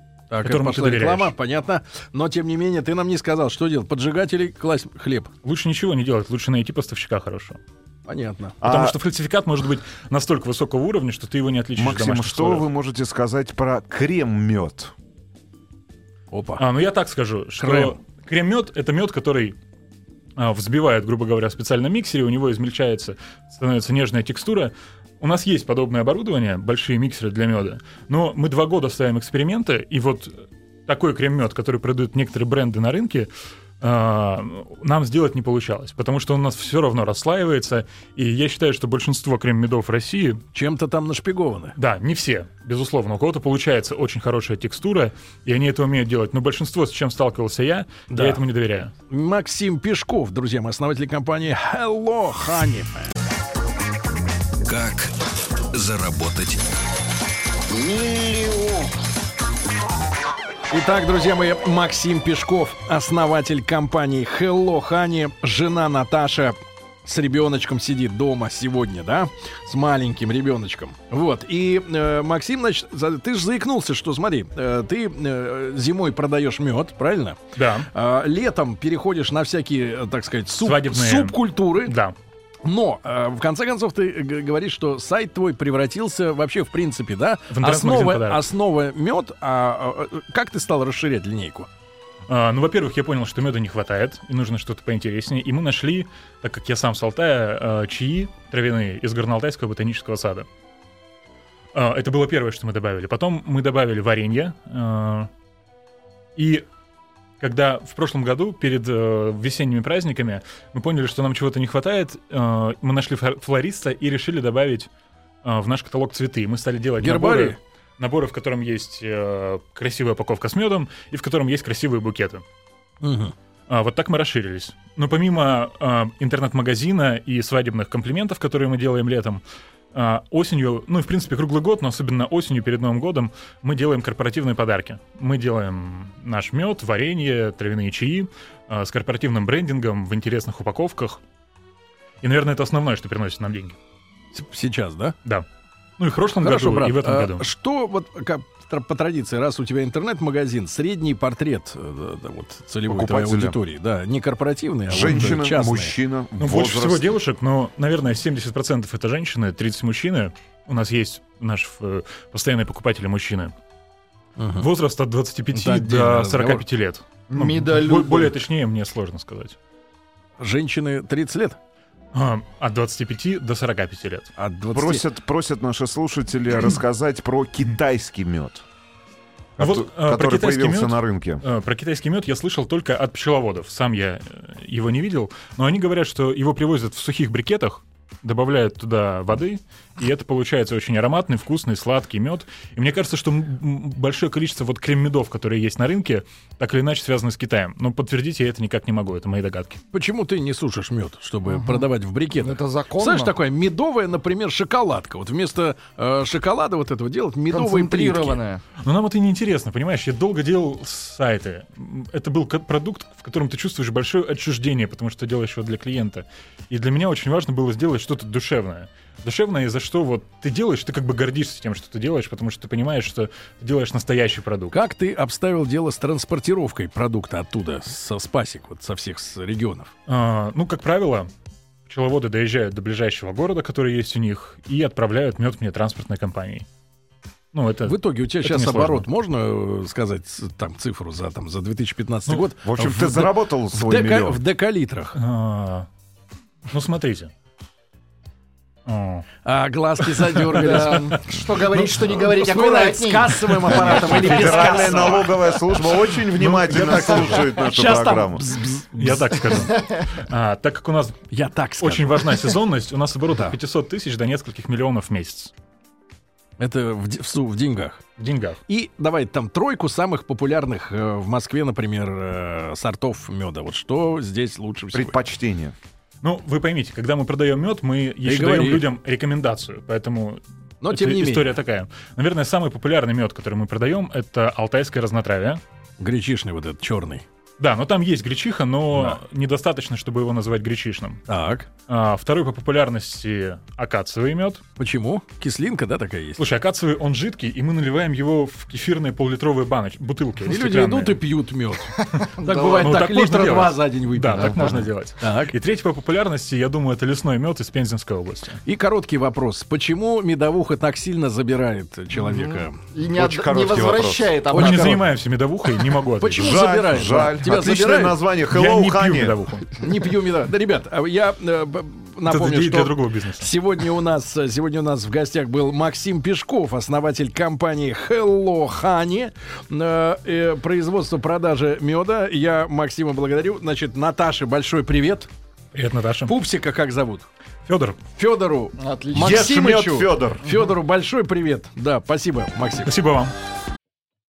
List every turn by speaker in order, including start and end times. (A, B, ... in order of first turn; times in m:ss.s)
0:00.3-0:05.3 A
0:00.4-0:01.3 B
0:05.4-0:07.6 B
0:08.1-0:08.6 A
0:08.6-0:09.0 C
0:08.6-0:12.7 B
0:11.8-0:14.9 C
0:16.3-0:16.6 A
0:16.6-0:19.6 B
0:17.6-0:18.0 A
0:20.4-0:33.3 B
0:33.8-0:40.4 B
0:40.5-0:41.7 A
0:41.8-0:48.9 B
0:48.1-0:48.4 A
0:49.1-0:53.1 A
0:54.6-0:56.6 D
0:57.5-0:58.9 D
1:00.7-1:22.0 A
1:17.5-1:17.9 B
1:20.6-1:22.1 B
1:22.6-1:31.7 A
1:27.5-1:28.4 B
1:32.3-1:40.5 B
1:41.7-1:45.3 B
1:46.4-1:46.6 B
1:47.4-1:54.9 B
1:55.4-2:02.4 B
1:57.0-1:57.6 A
2:03.0-2:03.3 A
2:03.7-2:09.4 B
2:09.9-2:21.2 B
2:22.2-2:23.8 B
2:24.3-2:25.1 A
2:26.0-2:27.5 B
2:26.4-2:36.0 A
2:32.8-2:33.6 C
2:34.9-2:37.1 C
2:34.9-2:35.3 B
2:36.4-2:43.5 B
2:44.4-2:44.7 A
2:44.6-2:49.6 B
2:45.5-2:46.6 A
2:47.3-2:48.4 E
2:50.4-2:51.6 A
2:52.1-2:54.3 B
2:54.4-2:55.0 A
2:54.7-2:58.6 C
2:59.6-3:01.4 C
2:59.6-3:19.8 B
3:19.9-3:28.4 A
3:21.5-3:21.8 E
3:22.4-3:23.3 E
3:27.5-3:28.6 E
3:28.8-3:44.8 B
3:44.7-3:49.9 A
3:50.1-3:51.3 B
3:51.8-3:56.6 B
3:57.5-3:59.0 B
3:57.8-4:05.2 A
4:02.6-4:04.4 C
4:05.1-4:05.9 B
4:06.7-4:07.3 B
4:08.8-4:09.2 B
4:09.4-4:11.2 A
4:10.2-4:12.2 B
4:10.4-4:14.1 E
4:11.8-4:15.3 A
4:13.8-4:18.6 C
4:14.0-4:15.1 B
4:16.3-4:17.4 B
4:16.5-4:19.3 A
4:19.0-4:21.3 B
4:19.5-4:20.2 E
4:21.3-4:22.5 A
4:21.8-4:25.5 B
4:23.3-4:23.6 A
4:26.6-4:28.0 A
4:28.2-4:28.6 B
4:28.7-4:35.2 A
4:34.9-4:35.7 C
4:36.2-4:45.6 B
4:38.2-4:38.9 A
4:40.8-4:41.5 A
4:46.0-4:47.2 A
4:47.6-4:51.2 B
4:51.3-4:51.7 A
4:51.9-4:54.6 B
4:54.8-4:56.4 A
4:56.4-5:01.2 B
5:00.4-5:05.5 A
5:02.0-5:02.9 E
5:02.4-5:08.6 B
5:08.6-5:12.8 A
5:12.2-5:15.0 E
5:13.1-5:14.3 C
5:14.5-5:15.0 A
5:14.5-5:16.6 B
5:16.2-5:18.2 A
5:16.3-5:19.4 C
5:18.5-5:19.7 B
5:19.8-5:35.3 A
5:22.2-5:23.5 B
5:35.7-5:36.3 B
5:36.2-5:37.3 A
5:37.6-5:38.0 B
5:38.2-5:42.9 A
5:38.8-5:39.4 E
5:39.1-5:40.4 C
5:42.8-5:43.3 B